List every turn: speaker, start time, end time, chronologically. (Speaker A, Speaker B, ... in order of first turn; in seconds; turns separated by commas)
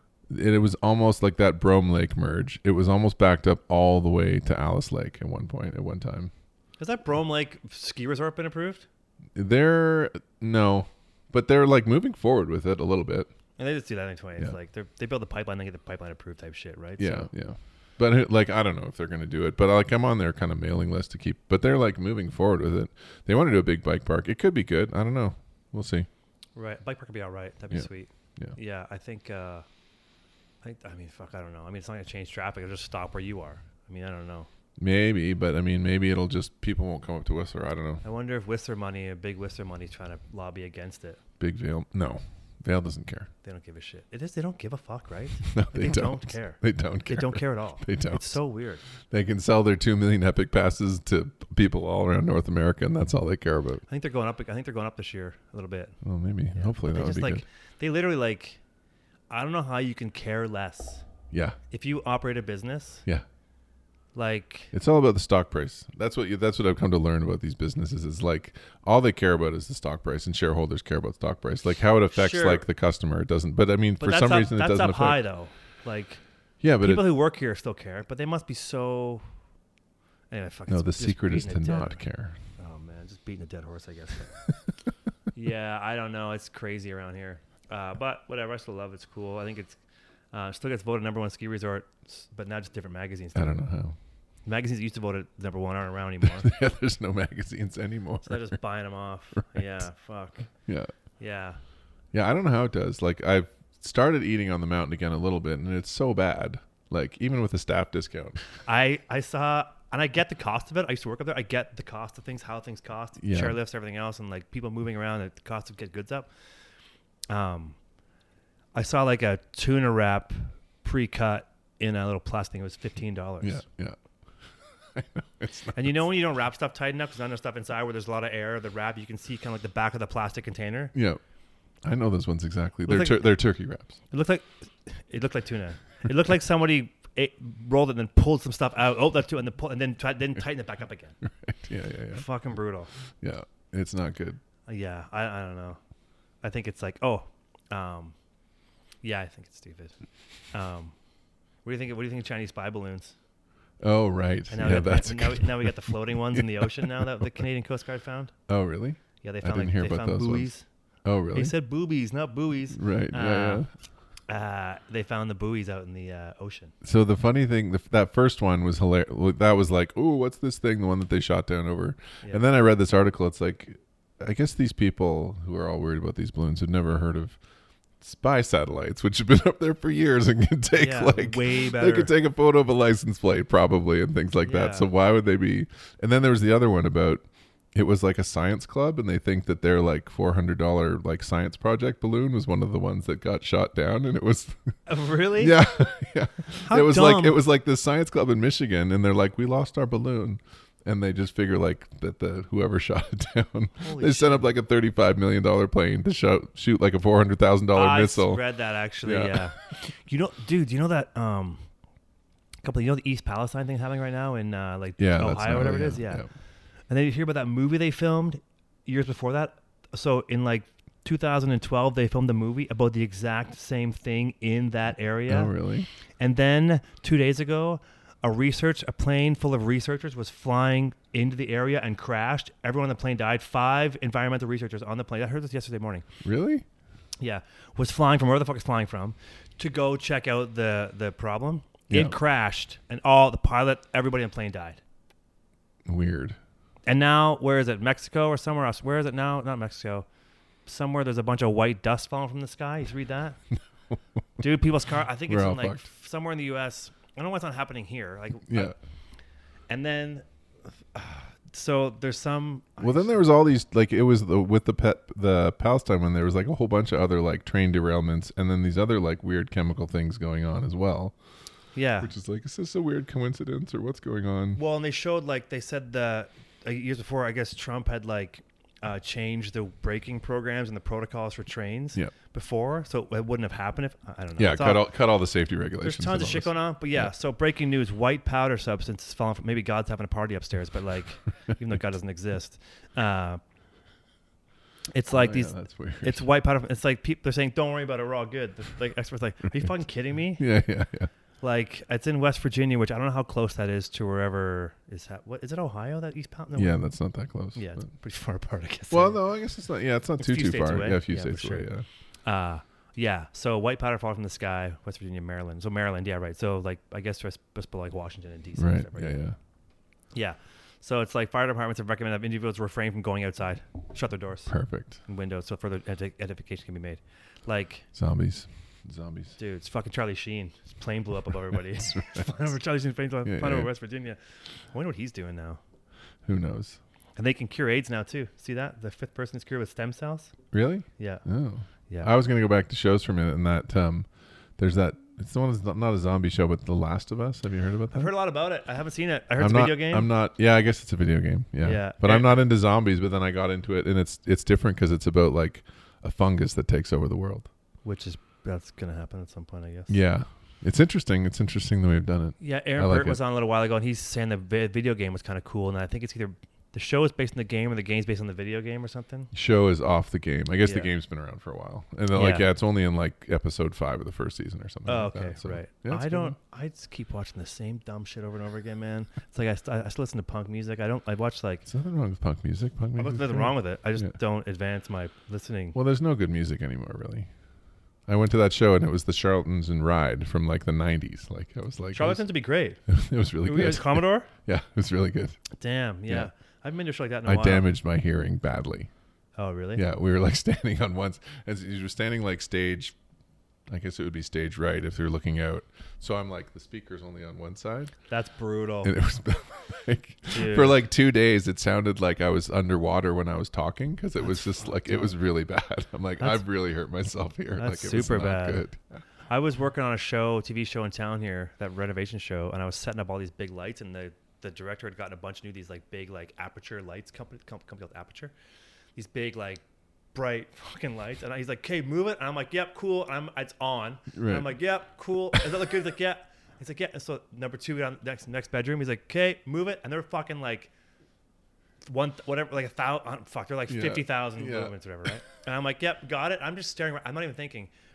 Speaker A: 0.3-6.3, Speaker B: 6.8-8.8, Speaker A: 9.3-13.3, Speaker B: 13.6-17.3, Speaker A: 17.0-26.1, Speaker B: 26.6-29.6, Speaker A: 27.7-28.6, Speaker B: 30.6-34.5, Speaker A: 34.8-38.0, Speaker B: 38.0-41.2, Speaker A: 41.4-43.3, Speaker B: 43.4-48.8, Speaker A: 45.4-48.4, Speaker A: 49.0-53.8, Speaker B: 53.9-55.9, Speaker A: 56.0-57.4, Speaker B: 56.5-58.6, Speaker B: 59.3-61.0, Speaker A: 61.3-61.6, Speaker B: 61.7-63.0, Speaker B: 64.1-64.7, Speaker A: 64.7-75.2, Speaker B: 72.1-72.6, Speaker B: 74.0-76.2, Speaker A: 76.6-77.0, Speaker B: 76.8-79.2, Speaker B: 80.3-82.0, Speaker A: 80.7-82.3, Speaker B: 82.6-84.4, Speaker B: 85.3-89.8, Speaker B: 90.3-93.7, Speaker A: 93.3-94.0, Speaker B: 94.4-96.5, Speaker A: 96.2-98.6, Speaker B: 98.2-100.5, Speaker A: 100.7-100.9, Speaker B: 101.2-101.6, Speaker A: 102.1-108.4, Speaker B: 108.6-116.3, Speaker A: 113.2-113.6, Speaker B: 117.3-117.8, Speaker B: 118.7-123.6, Speaker A: 123.4-124.0, Speaker A: 124.9-126.0, Speaker B: 125.7-130.9, Speaker A: 130.9-131.2, Speaker A: 131.8-134.0, Speaker B: 132.8-133.3, Speaker B: 134.1-141.2, Speaker A: 141.2-142.2, Speaker B: 142.1-142.9, Speaker A: 143.2-144.4, Speaker B: 144.7-145.8, Speaker B: 146.4-148.1, Speaker B: 149.0-149.9, Speaker B: 150.5-150.9, Speaker B: 151.6-153.1, Speaker A: 153.8-156.9, Speaker B: 154.5-158.3, Speaker A: 158.5-160.5, Speaker B: 159.2-160.6, Speaker A: 161.0-161.5, Speaker B: 161.3-163.6, Speaker A: 162.7-163.7, Speaker B: 164.3-166.7, Speaker A: 166.8-177.4, Speaker A: 178.0-187.2, Speaker B: 180.8-182.1, Speaker B: 184.4-184.9, Speaker A: 187.7-194.7, Speaker B: 194.9-195.6, Speaker A: 195.4-208.4, Speaker B: 196.6-197.4, Speaker B: 203.8-204.5, Speaker B: 207.7-211.6, Speaker A: 209.0-209.5, Speaker B: 212.6-216.2, Speaker A: 215.0-216.3, Speaker B: 216.9-225.5, Speaker A: 225.3-225.9, Speaker B: 226.2-236.0, Speaker A: 236.2-236.6, Speaker B: 237.2-244.8, Speaker A: 241.9-242.2, Speaker A: 245.8-246.4, Speaker B: 246.8-250.1, Speaker B: 250.7-253.4, Speaker B: 254.4-258.7, Speaker A: 255.3-255.9, Speaker A: 258.5-258.7, Speaker B: 259.7-260.2, Speaker B: 260.9-263.2, Speaker A: 262.8-271.1, Speaker B: 271.7-272.1, Speaker A: 272.0-274.6, Speaker B: 274.6-284.9, Speaker A: 284.4-287.1, Speaker B: 285.8-293.4, Speaker B: 294.9-300.4, Speaker A: 295.1-296.3, Speaker A: 300.4-301.1, Speaker B: 301.4-306.8, Speaker A: 306.5-307.8, Speaker B: 307.5-309.2, Speaker A: 308.9-311.8, Speaker B: 310.2-311.7, Speaker B: 312.2-319.2, Speaker A: 318.6-319.4, Speaker B: 320.1-324.5, Speaker A: 324.5-325.0, Speaker B: 325.0-327.8, Speaker A: 327.9-329.4, Speaker B: 329.4-334.2, Speaker A: 331.8-332.4, Speaker A: 333.2-333.7, Speaker B: 334.7-335.6, Speaker A: 336.2-336.8, Speaker B: 337.2-340.3, Speaker A: 340.5-348.1, Speaker B: 341.0-341.2, Speaker B: 347.9-350.1, Speaker A: 349.4-357.5, Speaker B: 351.6-352.4, Speaker B: 357.8-359.9, Speaker A: 359.9-363.2, Speaker B: 362.4-369.3, Speaker A: 369.3-376.4, Speaker B: 370.6-370.9, Speaker B: 372.1-372.4, Speaker B: 374.9-381.6, Speaker A: 381.7-384.1, Speaker B: 382.9-385.8, Speaker A: 385.7-387.3, Speaker A: 388.1-392.2, Speaker B: 391.9-392.8, Speaker A: 392.9-395.4, Speaker B: 393.4-394.3, Speaker B: 395.6-397.7, Speaker A: 397.2-398.9, Speaker B: 399.4-399.8, Speaker A: 399.7-402.9, Speaker A: 403.7-407.9, Speaker B: 408.1-408.9, Speaker A: 408.8-418.8, Speaker B: 410.3-410.8, Speaker B: 414.2-415.1, Speaker B: 417.6-418.6, Speaker B: 419.3-428.3, Speaker B: 428.9-429.6, Speaker B: 430.1-440.7, Speaker A: 434.1-434.5, Speaker B: 441.9-447.7, Speaker A: 443.7-444.7